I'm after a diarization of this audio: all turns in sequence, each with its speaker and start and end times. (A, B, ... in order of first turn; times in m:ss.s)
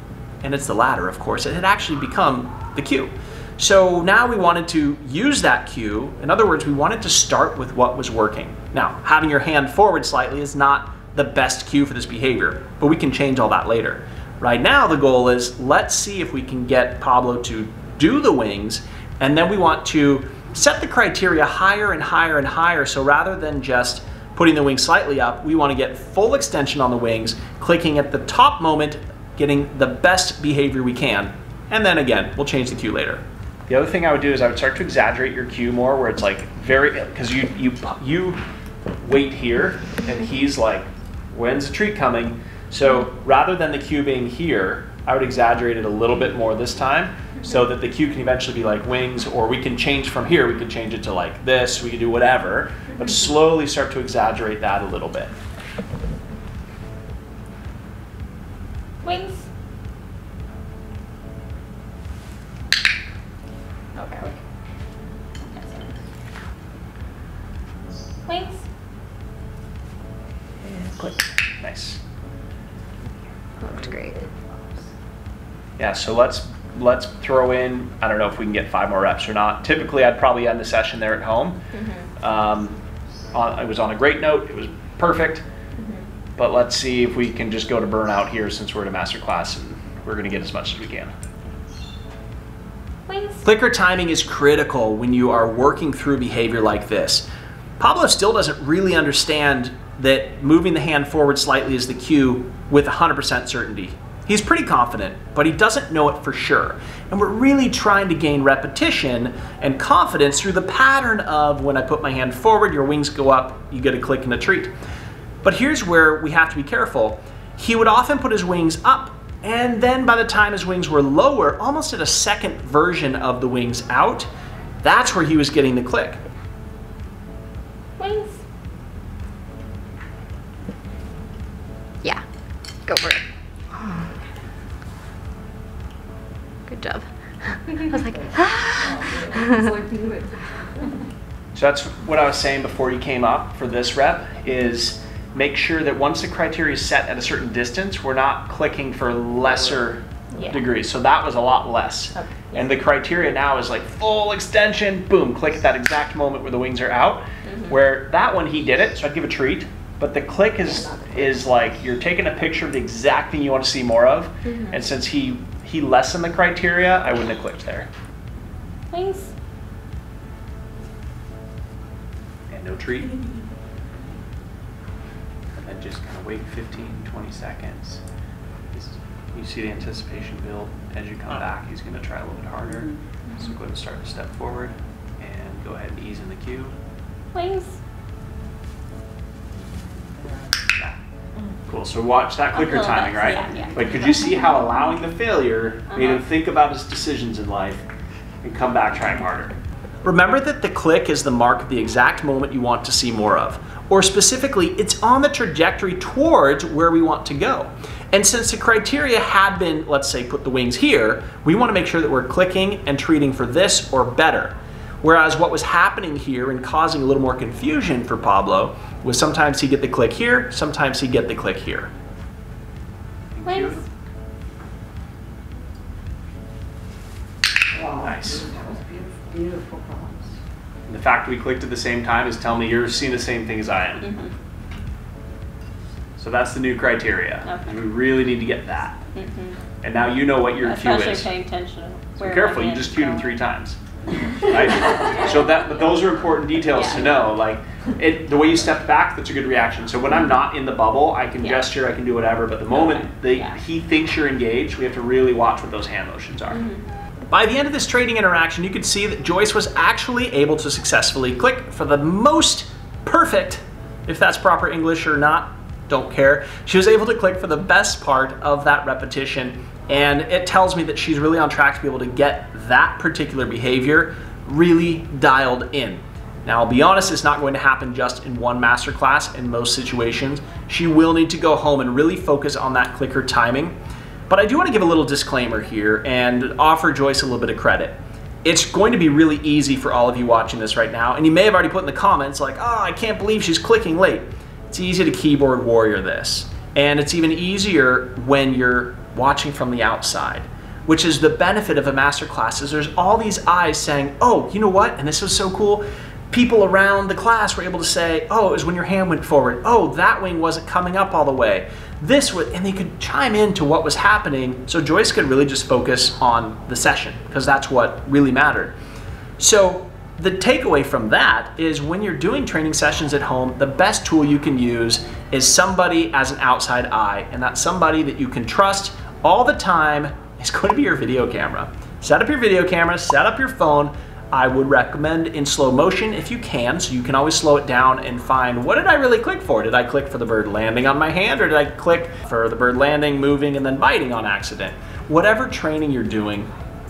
0:00.4-0:38.4 A
0:39.0-0:55.3 A
0:59.0-0:59.5 B
1:04.0-1:04.4 B
1:05.4-1:05.9 B
1:08.2-1:08.6 B
1:10.6-1:12.0 A
1:13.6-1:14.2 C
1:15.8-1:21.6 A
1:21.7-1:22.1 B
1:22.2-1:22.7 A
1:23.3-1:25.4 A
1:25.8-1:26.0 B
1:26.4-1:31.1 A
1:33.1-1:33.4 B
1:33.4-1:37.2 A
1:37.8-1:54.7 A
1:55.4-2:04.3 A
2:04.8-2:06.2 A
2:08.0-2:08.4 B
2:12.8-2:13.2 C
2:13.7-2:14.0 C
2:16.7-2:19.7 C
2:18.8-2:19.4 D
2:19.4-2:20.4 B
2:21.5-2:47.9 A
2:30.3-2:30.6 B
2:32.1-2:32.7 B
2:37.4-2:37.7 B
2:40.7-2:41.3 B
2:44.4-2:44.8 B
2:48.9-2:49.3 B
2:52.5-2:53.1 A
2:55.6-2:58.0 A
2:58.7-3:06.7 A
3:07.3-3:07.8 B
3:11.7-3:17.8 A
3:12.5-3:14.3 B
3:15.9-3:16.2 B
3:18.4-3:41.9 A
3:43.3-3:43.8 A
3:43.4-3:43.8 B
3:47.7-3:50.3 D
3:48.0-3:48.5 A
3:50.9-3:54.1 A
3:54.0-3:54.3 B
3:56.2-3:59.0 A
3:59.1-3:59.6 B
3:59.8-4:01.3 A
4:00.6-4:03.4 B
4:02.2-4:03.8 A
4:04.3-4:16.6 A
4:04.9-4:05.3 B
4:06.6-4:07.2 B
4:10.1-4:10.4 B
4:11.4-4:11.7 B
4:12.7-4:13.6 B
4:16.5-4:16.8 B
4:17.3-4:43.8 A
4:44.3-5:18.7 A
5:19.4-5:46.5 A